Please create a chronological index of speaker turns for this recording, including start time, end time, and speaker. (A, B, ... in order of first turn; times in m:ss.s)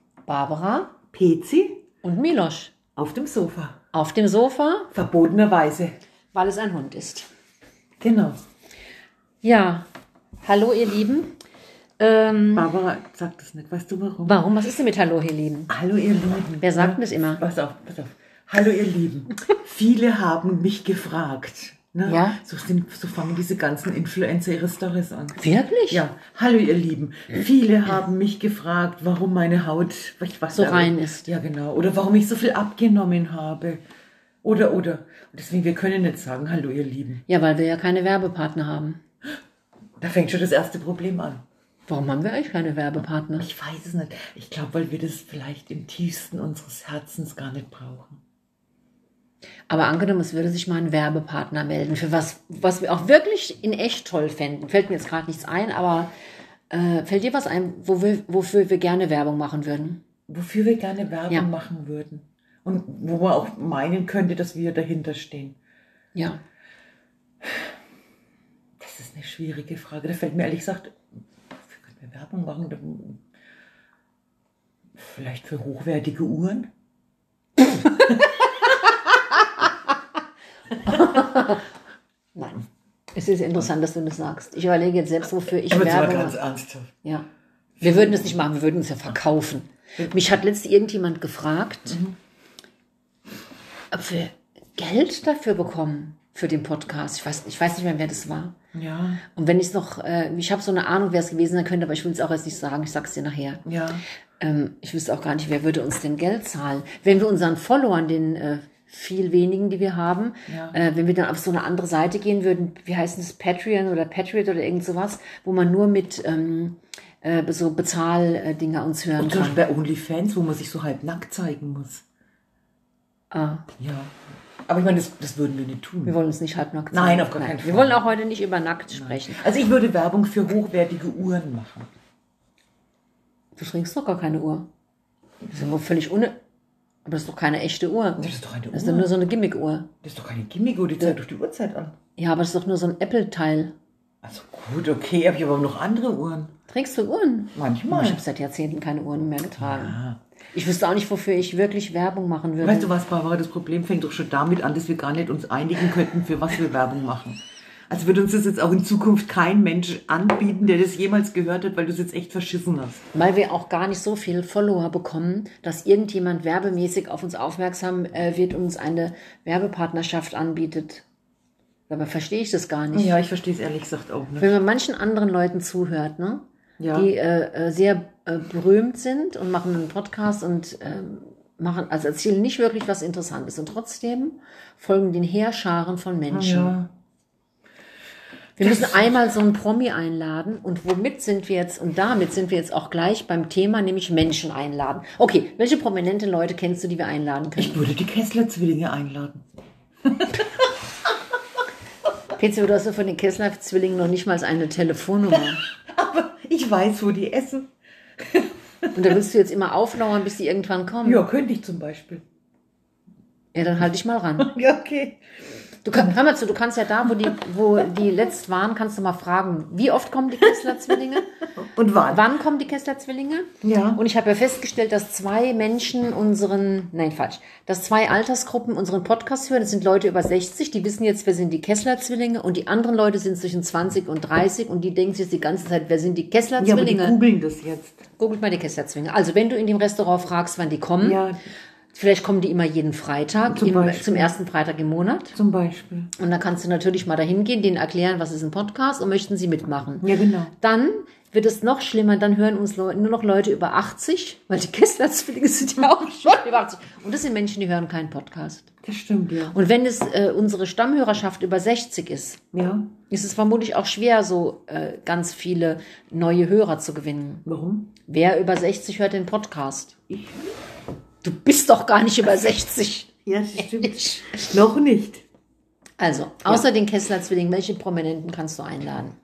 0:00.2-0:00.9 A
0:01.1-0:01.8 B
0:02.0-0:02.7 A
0:03.0-0:03.8 B
0:03.9-0:04.9 A
0:04.9-0:06.0 B
0:06.3-0:07.3 A
0:08.0-0:08.4 B
0:09.4-0:09.9 A
0:10.4-0:11.4 A
0:12.0-0:12.7 A
0:12.5-0:14.5 B
0:14.2-0:15.7 A
0:15.7-0:33.8 B
0:16.6-0:17.4 A
0:22.0-0:22.4 A
0:25.4-0:26.0 A
0:30.5-0:31.3 A
0:34.4-0:37.2 B
0:37.3-0:39.0 A
0:40.0-0:41.4 B
0:41.9-0:43.5 A
0:43.4-0:48.2 B
0:49.7-0:56.1 A
0:56.7-1:00.0 A
1:00.3-1:05.6 B
1:06.1-1:06.4 A
1:08.8-1:11.0 B
1:11.6-1:13.2 B
1:15.0-1:16.7 B
1:20.8-1:21.6 A
1:22.3-1:26.4 A
1:25.7-1:26.9 B
1:27.8-1:28.3 B
1:27.8-1:32.0 A
1:31.9-1:32.1 B
1:33.9-1:38.5 A
1:38.7-1:39.2 B
1:39.3-1:43.6 A
1:43.6-1:44.0 B
1:44.4-1:59.6 A
1:50.5-1:50.8 B
1:59.2-2:02.0 B
2:03.3-2:03.6 A
2:03.8-2:06.2 B
2:06.0-2:09.4 A
2:06.9-2:08.0 B
2:08.9-2:11.9 B
2:13.6-2:14.7 A
2:15.5-2:16.4 A
2:17.0-2:19.9 A
2:18.2-2:19.1 B
2:20.0-2:21.9 B
2:22.2-2:23.7 A
2:24.2-2:26.5 B
2:26.7-2:30.0 A
2:27.5-2:28.2 B
2:29.6-2:30.2 B
2:30.5-2:32.9 A
2:32.6-2:43.0 B
2:43.1-2:51.0 A
2:51.9-2:53.2 A
2:52.9-2:54.6 B
2:54.4-3:06.8 A
2:56.8-2:57.1 B
3:06.3-3:06.9 B
3:08.6-3:09.2 B
3:08.6-3:17.8 A
3:17.6-3:19.4 B
3:20.0-3:20.7 B
3:22.4-3:25.7 A
3:25.3-3:27.7 B
3:28.2-3:28.9 B
3:28.9-3:31.3 A
3:31.0-3:32.2 B
3:33.5-3:34.5 A
3:34.4-3:35.2 B
3:35.8-3:41.3 A
3:41.6-3:42.3 B
3:42.0-3:57.2 A
3:43.6-3:44.0 B
3:56.6-3:58.0 B
3:58.2-4:01.2 A
4:01.0-4:01.4 B
4:01.9-4:05.4 A
4:03.4-4:04.3 B
4:05.3-4:06.1 B
4:06.2-4:10.1 A
4:10.0-4:10.5 B
4:10.6-4:18.7 A
4:18.8-4:19.6 B
4:19.5-4:22.4 A
4:22.5-4:22.9 B
4:23.1-4:27.4 A
4:27.4-4:27.9 B
4:28.0-4:30.0 A
4:30.1-4:30.4 B
4:31.2-4:34.4 A
4:33.2-4:35.2 B
4:36.0-4:39.1 A